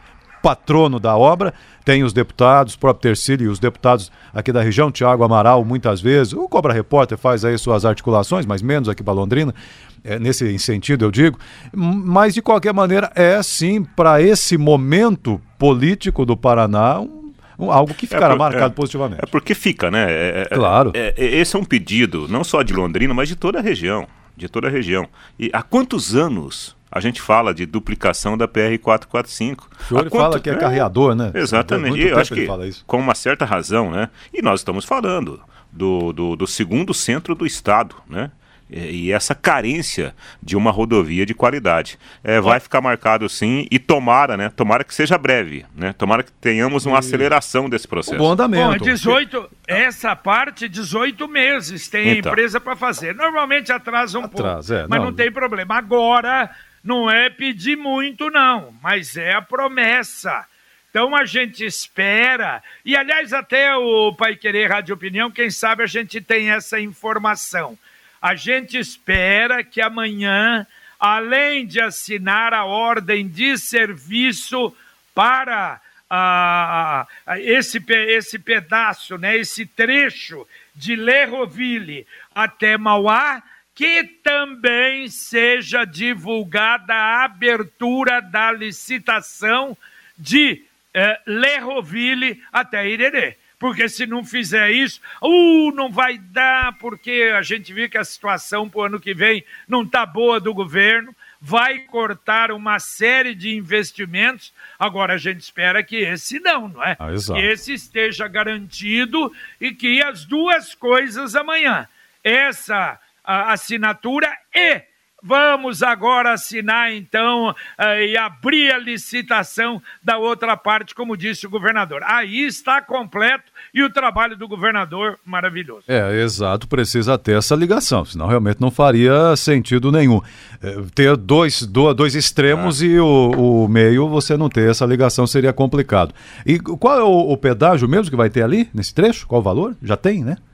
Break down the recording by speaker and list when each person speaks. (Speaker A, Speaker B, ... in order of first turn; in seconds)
Speaker A: 0.4-19.2, 20.5-20.9, 29.9-32.8, 46.8-47.3, 48.1-49.2, 54.2-55.2, 107.0-107.5, 125.9-140.4
Speaker B: 18.1-48.3, 52.0-52.4
Speaker C: 48.5-125.9